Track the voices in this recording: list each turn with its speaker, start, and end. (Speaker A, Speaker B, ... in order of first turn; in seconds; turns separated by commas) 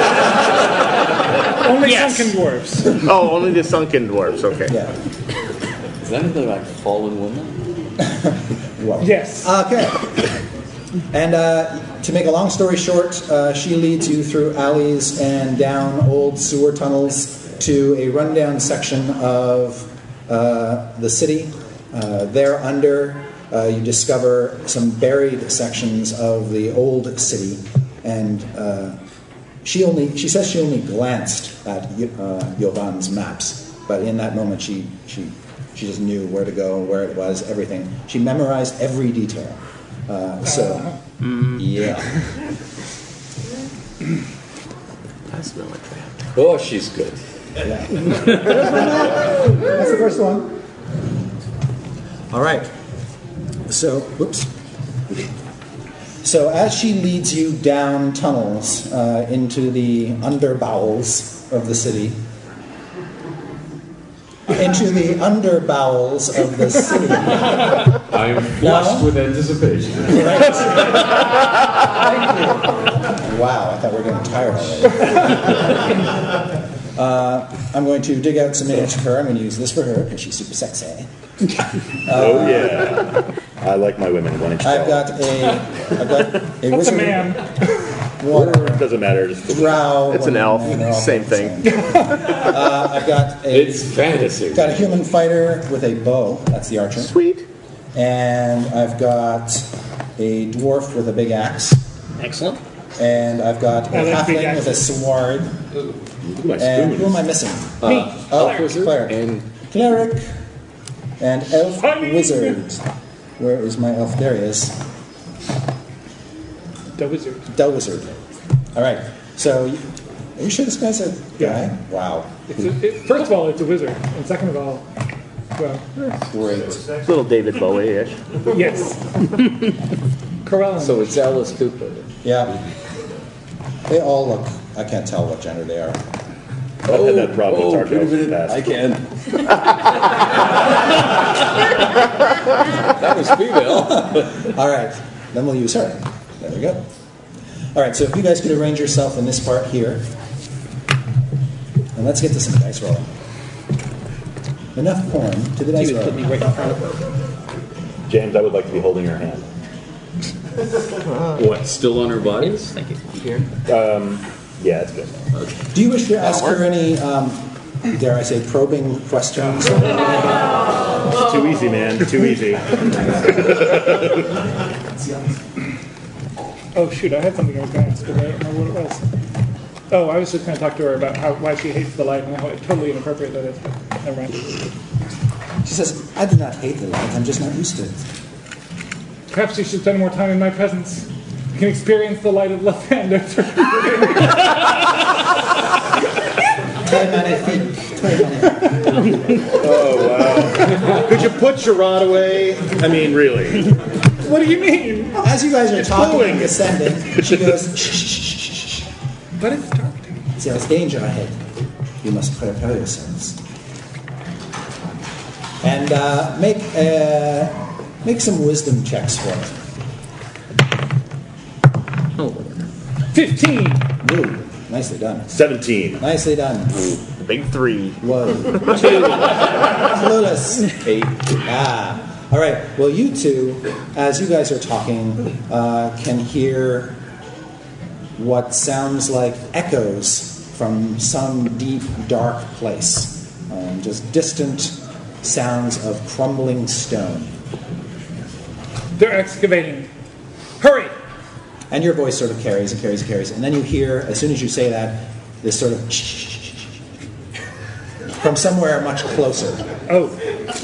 Speaker A: 1.6-3.0, Speaker B: 1.8-2.3, Speaker C: 3.0-4.8, Speaker D: 4.7-4.9, Speaker E: 6.0-7.7, Speaker D: 8.2-10.1, Speaker A: 9.0-9.5, Speaker D: 11.1-29.0, Speaker D: 29.6-40.9, Speaker A: 40.5-41.0, Speaker D: 41.5-42.1, Speaker C: 45.3-46.2, Speaker E: 46.3-47.2, Speaker D: 47.6-50.6, Speaker D: 52.3-52.7, Speaker D: 53.7-54.5, Speaker D: 56.2-62.2, Speaker D: 64.5-67.8, Speaker E: 68.0-70.4, Speaker D: 68.6-69.1, Speaker D: 70.1-71.0, Speaker D: 72.0-76.0, Speaker D: 77.0-81.1, Speaker D: 82.0-83.0, Speaker F: 82.1-85.1, Speaker D: 84.6-87.4, Speaker A: 86.7-87.5, Speaker D: 88.2-88.9, Speaker F: 88.3-89.7, Speaker D: 89.5-94.0, Speaker C: 90.1-91.7, Speaker A: 91.8-92.2, Speaker E: 93.5-94.9, Speaker D: 94.5-97.1, Speaker C: 97.0-97.5, Speaker D: 98.0-101.8, Speaker B: 102.2-102.6, Speaker D: 103.0-105.5, Speaker A: 103.9-104.8, Speaker F: 106.2-107.2, Speaker D: 106.6-110.3, Speaker E: 107.8-109.5, Speaker A: 107.9-108.6, Speaker D: 111.2-112.8, Speaker A: 111.8-112.6, Speaker D: 113.4-114.8, Speaker A: 117.0-117.5, Speaker D: 117.5-118.2, Speaker D: 118.8-122.4, Speaker A: 121.4-121.7, Speaker A: 122.5-124.8, Speaker A: 125.6-125.9, Speaker E: 126.2-126.9, Speaker C: 127.0-128.3, Speaker A: 128.5-129.0, Speaker A: 130.4-131.1, Speaker E: 130.8-132.1, Speaker D: 132.2-132.6, Speaker D: 133.9-136.0, Speaker F: 136.9-138.7, Speaker E: 136.9-139.4, Speaker E: 142.9-144.5, Speaker D: 143.7-146.8, Speaker D: 147.7-150.0, Speaker D: 152.0-153.1, Speaker D: 154.8-156.4, Speaker B: 155.8-156.9, Speaker F: 158.1-159.5, Speaker E: 161.4-162.7, Speaker B: 162.6-163.0, Speaker F: 163.7-165.2, Speaker D: 165.7-170.5, Speaker C: 166.3-166.6, Speaker F: 171.1-174.2, Speaker A: 176.8-179.1, Speaker A: 179.9-184.4, Speaker D: 185.6-188.0, Speaker A: 189.3-194.5, Speaker D: 196.8-198.9, Speaker F: 199.6-203.7, Speaker A: 204.2-205.2, Speaker D: 205.2-208.9, Speaker F: 205.9-206.6, Speaker A: 209.4-210.2, Speaker D: 210.4-211.4, Speaker D: 212.0-213.4, Speaker D: 215.6-219.6, Speaker B: 222.2-222.5, Speaker A: 223.1-223.8, Speaker D: 224.0-225.3, Speaker F: 225.3-226.0, Speaker D: 226.0-226.9, Speaker C: 227.2-228.0, Speaker D: 228.0-229.0, Speaker C: 228.5-229.1, Speaker D: 229.8-230.8, Speaker E: 230.8-231.1, Speaker D: 231.4-237.0, Speaker D: 238.2-247.3, Speaker A: 249.0-249.9, Speaker A: 250.6-250.9, Speaker D: 251.7-256.7, Speaker D: 258.1-259.7, Speaker A: 259.9-260.1